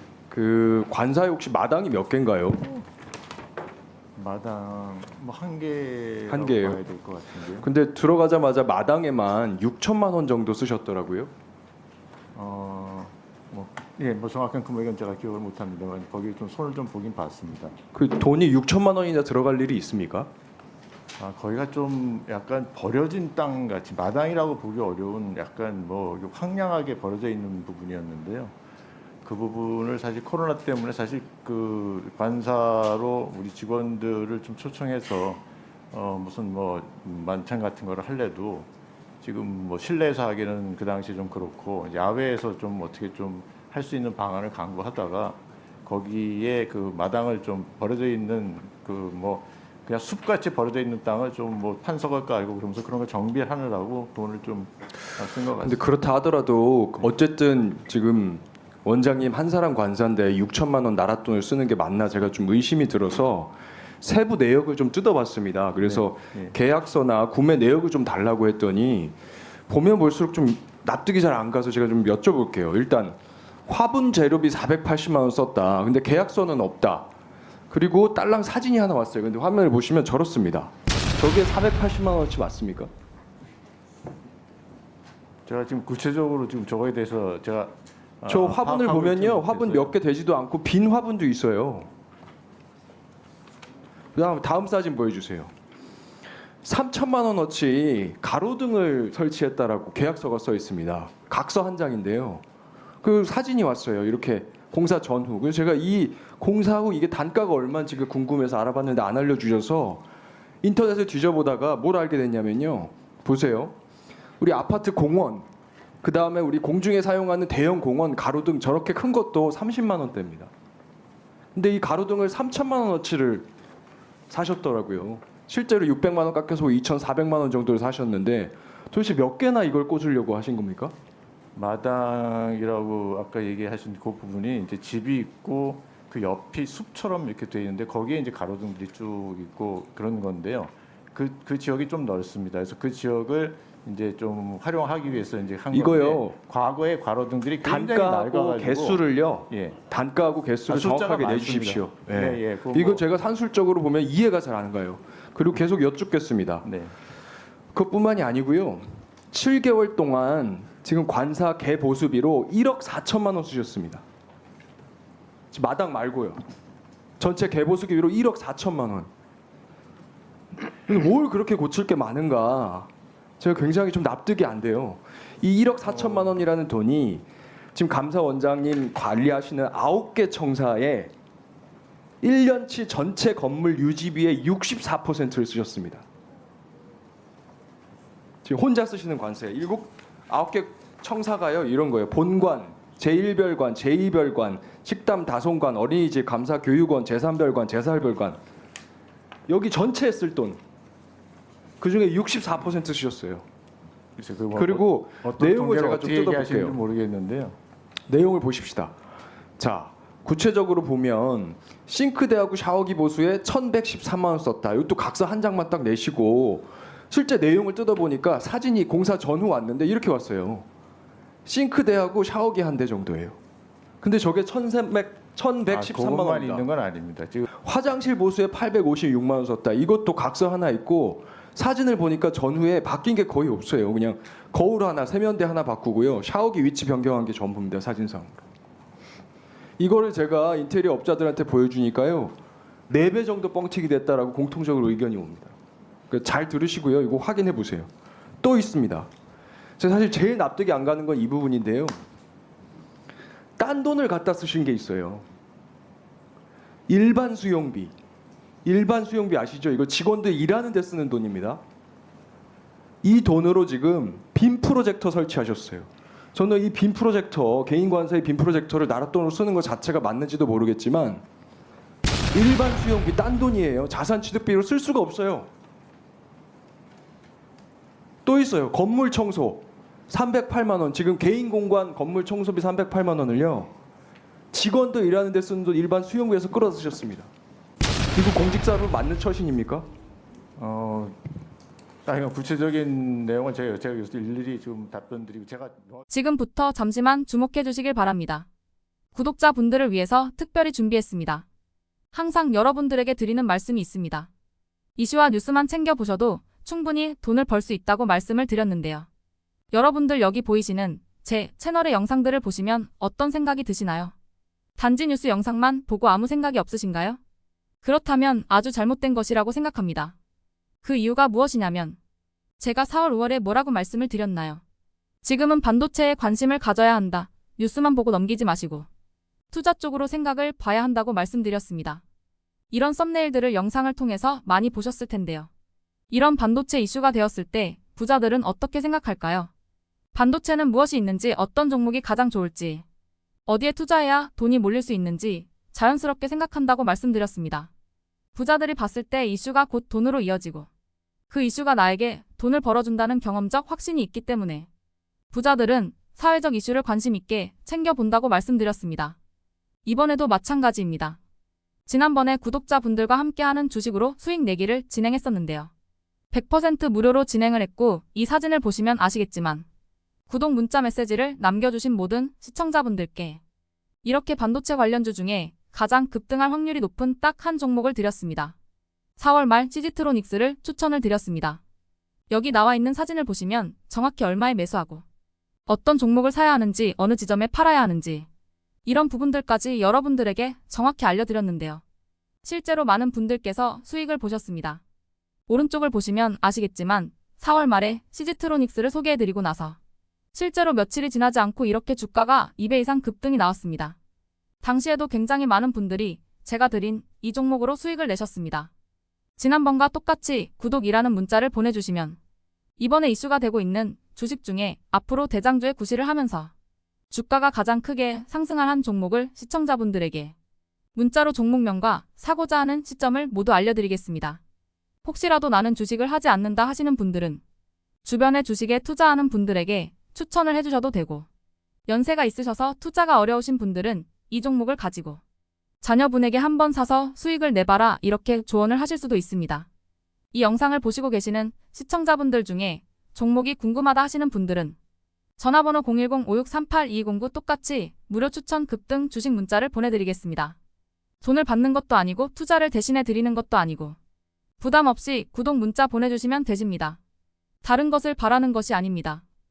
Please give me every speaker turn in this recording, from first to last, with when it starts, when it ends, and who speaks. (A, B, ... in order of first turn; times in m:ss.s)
0:00.3-0:02.8 A
0:04.2-0:07.7 B
0:06.3-0:06.8 A
0:07.6-0:11.3 A
0:12.3-0:17.8 B
0:17.9-0:20.3 A
0:21.2-0:28.5 B
0:29.2-0:38.7 B
0:39.2-0:55.9 B
0:55.6-1:09.1 A
1:05.8-1:06.5 B
1:09.7-1:17.1 A
1:17.7-1:22.9 A
1:25.4-1:29.9 B
1:28.3-1:31.9 A
1:34.1-1:35.5 A
1:36.6-1:42.4 A
1:43.0-1:50.0 A
1:50.6-1:53.7 A
1:54.4-1:55.4 A
1:56.0-2:00.5 A
2:01.5-2:03.5 A
2:04.3-2:10.9 A
2:11.5-2:29.8 B
2:25.7-2:26.3 A
2:27.6-2:36.7 A
2:30.7-2:33.0 B
2:36.6-2:36.9 B
2:37.7-2:44.0 A
2:45.5-2:46.4 A
2:47.2-2:49.1 A
2:50.9-2:52.9 A
2:53.4-3:01.1 A
3:02.2-3:06.0 A
3:08.4-3:18.4 A
3:19.5-3:20.6 A
3:21.8-3:23.4 A
3:24.2-3:27.6 B
3:24.5-3:26.8 A
3:28.1-3:28.9 A
3:29.6-3:40.6 A
3:41.4-3:43.4 A
3:44.0-3:46.7 A
3:45.7-3:47.5 B
3:47.6-3:58.3 A
3:59.8-4:02.3 A
4:02.9-4:05.5 A
4:06.1-4:07.9 A
4:08.4-4:09.1 A
4:09.8-4:12.0 A
4:13.6-4:15.2 A
4:16.9-4:17.9 A
4:18.6-4:21.6 A
4:23.0-4:31.2 A
4:32.3-4:35.5 A
4:38.2-4:43.7 A
4:44.5-4:47.3 A
4:48.1-4:49.9 A
4:50.6-4:51.2 B
4:52.0-4:56.0 B
4:56.1-4:58.5 C
4:59.1-5:01.4 C
5:02.1-5:04.3 C
5:05.0-5:09.1 C
5:09.7-5:14.1 C
5:14.8-5:17.2 C
5:17.8-5:20.2 C
5:20.8-5:22.0 C
5:22.6-5:24.6 C
5:25.2-5:28.9 C
5:29.5-5:32.0 C
5:32.7-5:35.5 C
5:36.1-5:39.5 C
5:40.1-5:42.8 C
5:43.4-5:47.7 C
5:48.3-5:50.7 C
5:51.3-5:54.7 C
5:55.3-5:59.2 C
5:59.8-6:01.2 C
6:01.8-6:05.7 C
6:06.3-6:09.6 C
6:10.3-6:13.4 C
6:14.0-6:18.6 C
6:19.2-6:21.6 C
6:22.3-6:25.0 C
6:25.6-6:28.3 C
6:28.8-6:31.8 C
6:32.4-6:34.8 C
6:35.5-6:39.8 C
6:40.3-6:44.0 C
6:44.6-6:48.7 C
6:49.4-6:52.2 C
6:52.8-6:56.5 C
6:57.1-7:00.3 C
7:00.9-7:04.4 C
7:05.0-7:07.4 C
7:08.0-7:11.3 C
7:11.9-7:15.2 C
7:15.8-7:19.7 C
7:20.3-7:24.8 C
7:25.4-7:30.6 C
7:31.2-7:34.0 C
7:34.6-7:37.0 C
7:37.6-7:39.2 C